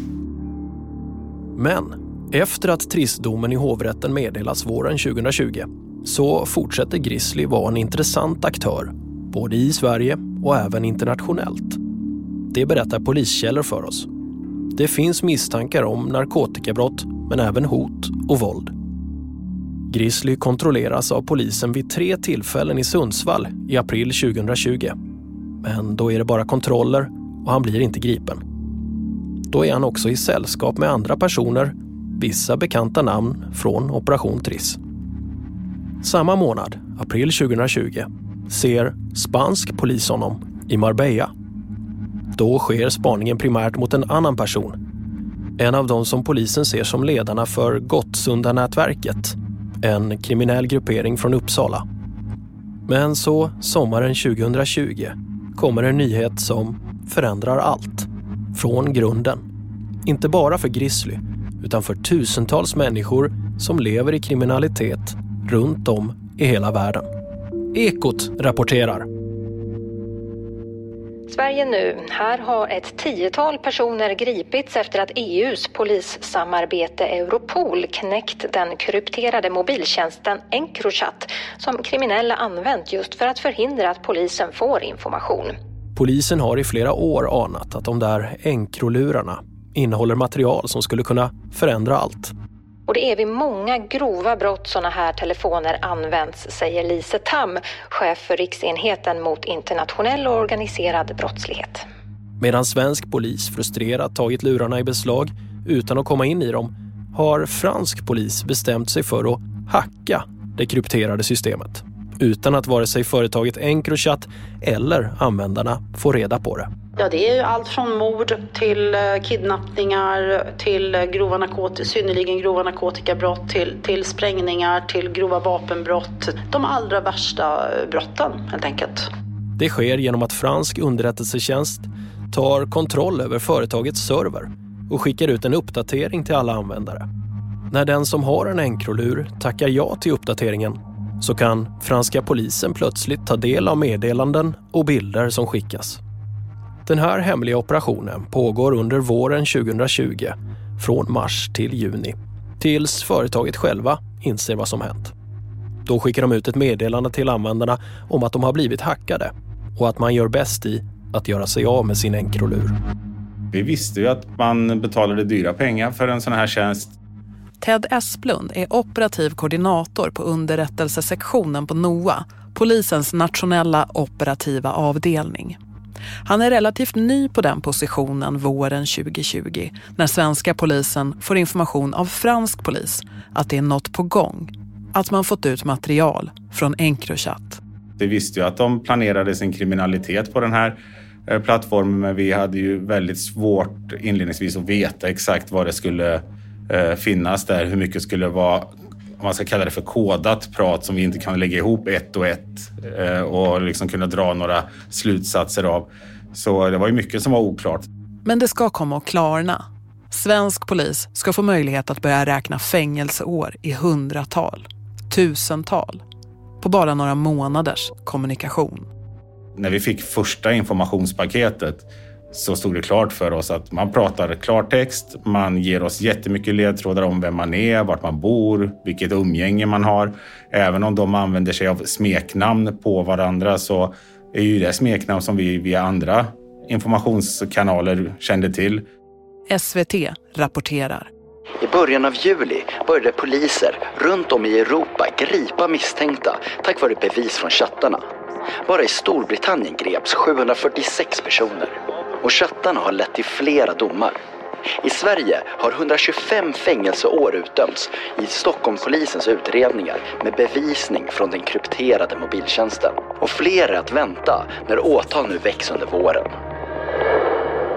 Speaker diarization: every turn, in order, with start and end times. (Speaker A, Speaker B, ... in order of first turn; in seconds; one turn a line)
Speaker A: 1.6-11.8
Speaker A: 12.5-14.1
Speaker A: 14.7-18.7
Speaker A: 19.9-24.9
Speaker A: 25.6-28.4
Speaker A: 29.5-34.8
Speaker A: 36.0-41.3
Speaker A: 42.3-44.8
Speaker A: 45.6-51.8
Speaker A: 52.9-59.4
Speaker A: 60.0-67.1
Speaker A: 67.7-69.0
Speaker B: 71.3-85.5
Speaker A: 85.9-92.3
Speaker B: 92.9-101.8
Speaker A: 102.4-116.7
Speaker C: 117.0-129.1
Speaker A: 129.6-137.0
Speaker A: 137.7-146.0
Speaker A: 146.8-155.1
Speaker A: 155.8-162.7
Speaker D: 163.5-166.9
Speaker E: 167.6-175.6
Speaker E: 176.2-187.6
Speaker D: 188.0-207.8
Speaker E: 208.2-216.0
Speaker E: 216.6-218.9
Speaker D: 219.6-238.8
Speaker E: 239.5-241.1
Speaker F: 241.6-248.0
Speaker F: 248.7-254.2
Speaker F: 254.8-266.4